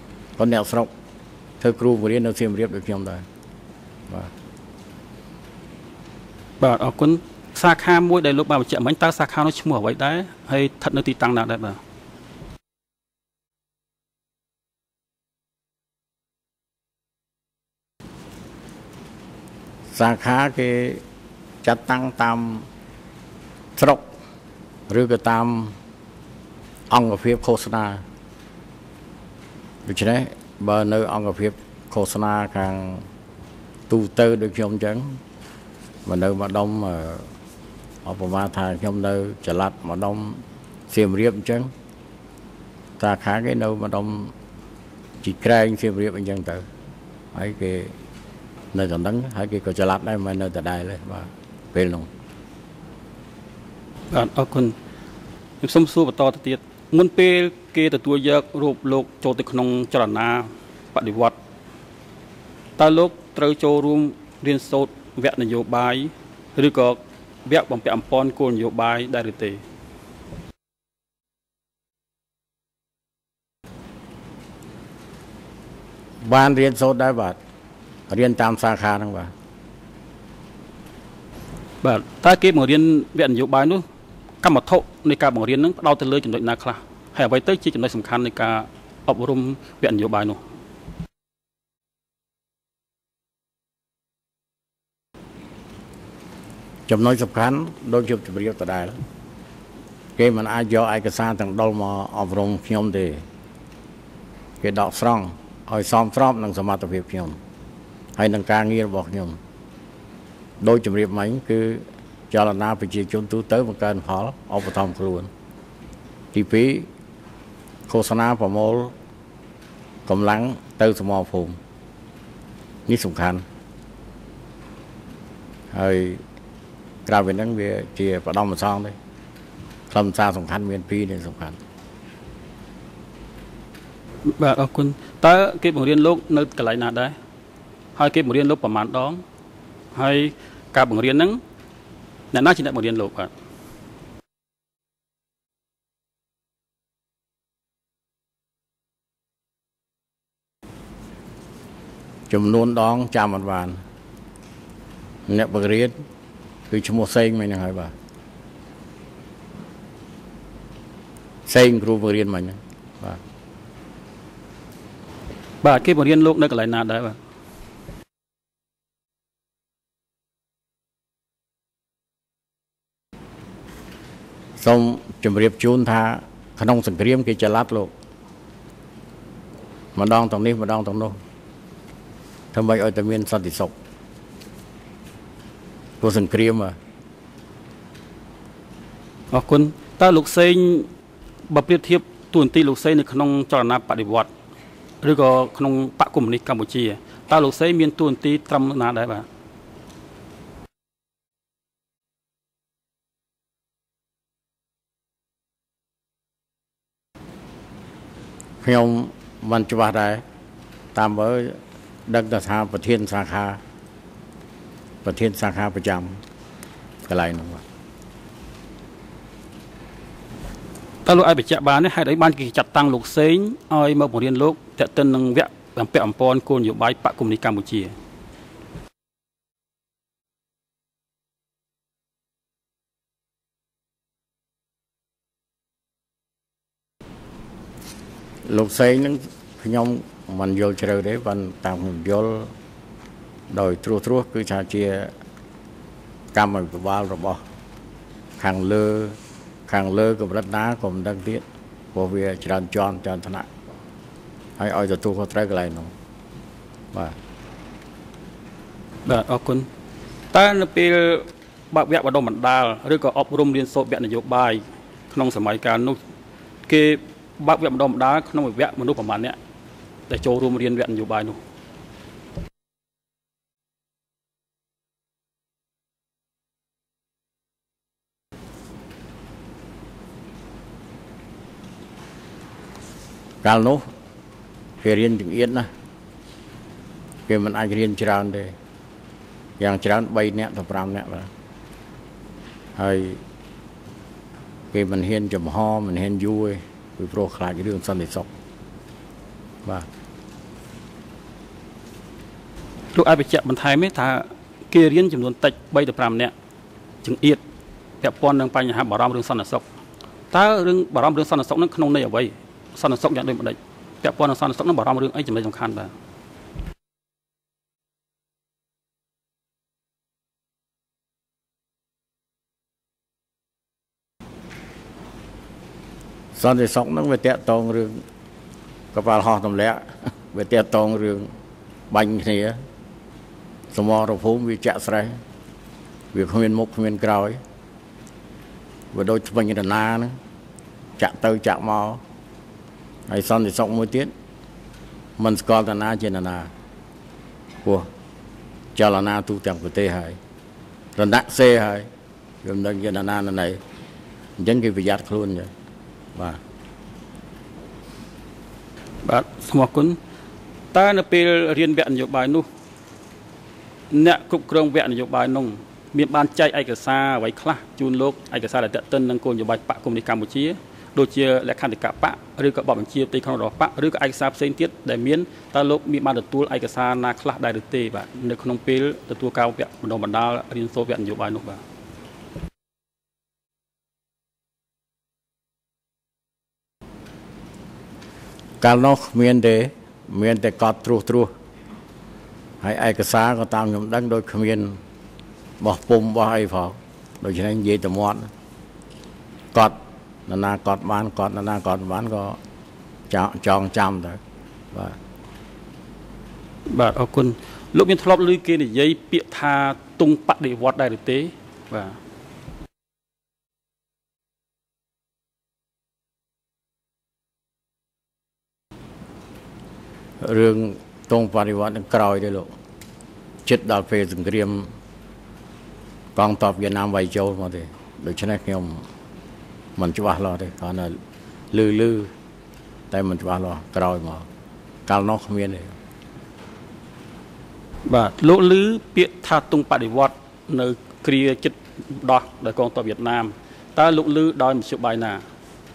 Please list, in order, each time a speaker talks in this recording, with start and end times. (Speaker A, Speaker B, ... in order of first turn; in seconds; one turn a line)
Speaker A: 0.4-0.9
Speaker A: 1.6-3.2
Speaker B: 6.6-11.8
Speaker A: 19.9-21.0
Speaker A: 21.6-22.7
Speaker A: 23.8-24.1
Speaker A: 24.9-25.8
Speaker A: 26.9-28.0
Speaker A: 29.9-33.0
Speaker A: 33.9-35.2
Speaker A: 36.0-37.3
Speaker A: 38.0-41.7
Speaker A: 43.0-44.3
Speaker A: 45.2-46.7
Speaker A: 47.3-47.9
Speaker A: 48.7-52.1
Speaker B: 54.1-54.8
Speaker B: 55.6-61.4
Speaker B: 62.8-69.6
Speaker A: 76.2-77.4
Speaker A: 78.1-79.3
Speaker B: 81.8-83.8
Speaker B: 84.4-90.4
Speaker A: 96.9-99.0
Speaker A: 100.2-103.2
Speaker A: 104.6-107.4
Speaker A: 108.2-109.4
Speaker A: 110.6-115.3
Speaker A: 116.3-116.9
Speaker A: 117.9-118.9
Speaker A: 120.1-121.6
Speaker A: 122.9-123.4
Speaker A: 125.7-126.2
Speaker A: 127.1-128.9
Speaker A: 129.9-131.6
Speaker B: 134.2-137.2
Speaker B: 138.0-139.2
Speaker B: 139.9-141.4
Speaker B: 142.3-143.3
Speaker A: 152.3-153.8
Speaker A: 155.3-156.0
Speaker A: 156.7-157.9
Speaker A: 161.5-163.2
Speaker B: 165.6-167.2
Speaker A: 174.6-177.9
Speaker A: 179.9-181.2
Speaker A: 182.5-183.7
Speaker A: 186.0-186.8
Speaker B: 189.3-190.9
Speaker B: 191.5-194.3
Speaker B: 195.0-199.3
Speaker A: 208.6-210.2
Speaker A: 210.9-213.6
Speaker A: 215.0-216.2
Speaker A: 217.1-217.6
Speaker B: 221.1-227.9
Speaker A: 238.4-242.5
Speaker A: 243.5-245.1
Speaker A: 246.3-247.4
Speaker A: 248.4-253.5
Speaker A: 254.6-255.9
Speaker B: 259.1-259.7
Speaker B: 260.3-266.0
Speaker B: 266.7-269.4
Speaker B: 270.1-271.4
Speaker A: 283.4-283.8
Speaker A: 284.8-285.7
Speaker A: 287.3-288.5
Speaker A: 289.6-291.3
Speaker A: 292.8-293.2
Speaker A: 294.7-298.3
Speaker B: 302.9-306.3
Speaker B: 307.0-307.4
Speaker B: 308.0-309.6
Speaker B: 310.3-315.9
Speaker A: 326.4-328.0
Speaker A: 328.9-331.3
Speaker A: 331.9-332.6
Speaker A: 333.7-335.2
Speaker A: 336.1-337.4
Speaker A: 338.9-340.2
Speaker A: 341.0-342.0
Speaker A: 343.1-344.1
Speaker A: 345.2-346.5
Speaker A: 348.8-350.2
Speaker A: 351.0-351.9
Speaker A: 352.4-353.6
Speaker A: 354.4-355.5
Speaker A: 356.1-356.4
Speaker B: 359.0-360.0
Speaker B: 360.7-362.5
Speaker B: 363.9-381.6
Speaker A: 388.6-391.3
Speaker A: 392.6-394.8
Speaker A: 395.6-398.3
Speaker A: 399.5-402.4
Speaker A: 403.1-404.2
Speaker B: 406.7-412.0
Speaker A: 420.2-422.5
Speaker A: 423.4-424.7
Speaker A: 426.2-428.9
Speaker A: 429.8-431.0
Speaker A: 431.5-432.1
Speaker A: 432.9-434.2
Speaker A: 434.9-435.7
Speaker B: 437.9-445.2